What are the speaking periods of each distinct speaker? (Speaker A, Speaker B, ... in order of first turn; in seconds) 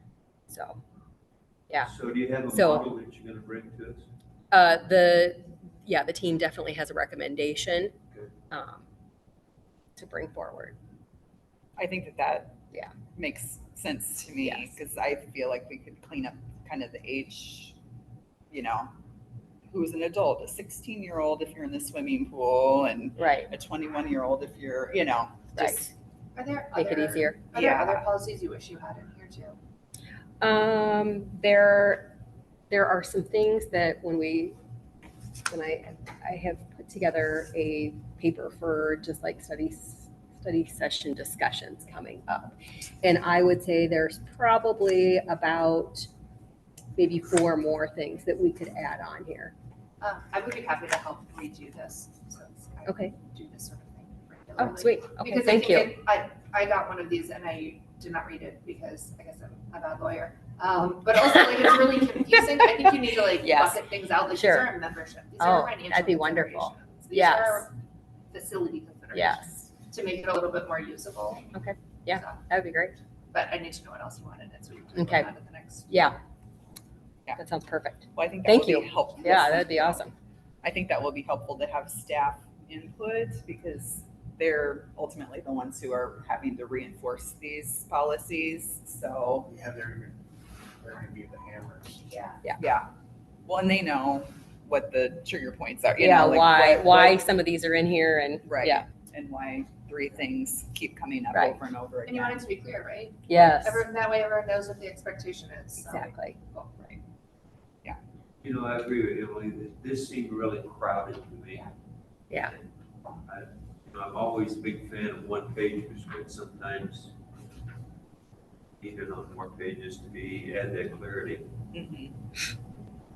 Speaker A: 0.5-0.8, 2.5-2.9, 4.5-7.9, 8.5-8.8, 9.9-10.8, 14.4-14.7, 23.2-23.5, 25.6-25.9, 26.7-27.4, 30.4-32.1, 32.7-34.5, 35.5-46.1, 47.0-49.5, 52.9-53.1, 54.6-55.9, 63.4-64.7, 65.4-67.7, 69.1-69.5, 71.5-73.0, 75.0-75.3, 75.9-76.2, 77.3-80.1, 96.0-98.8, 101.3-101.6, 103.3-103.8, 105.8-106.4
Speaker B: 1.8-4.0, 108.4-111.7, 112.3-112.7, 113.2-117.1, 118.8-121.5
Speaker C: 11.8-12.6, 13.1-17.8, 18.5-18.9, 19.7-25.9, 27.5-28.1, 78.1-80.1, 80.6-89.5, 92.6-92.9, 93.4-97.2, 98.5-102.5, 121.7-122.1
Speaker D: 26.4-29.6, 50.0-67.7, 68.3-71.5, 72.1-72.4, 73.3-75.9, 92.1-92.4, 102.0-107.0
Speaker E: 89.4-90.2, 90.8-92.1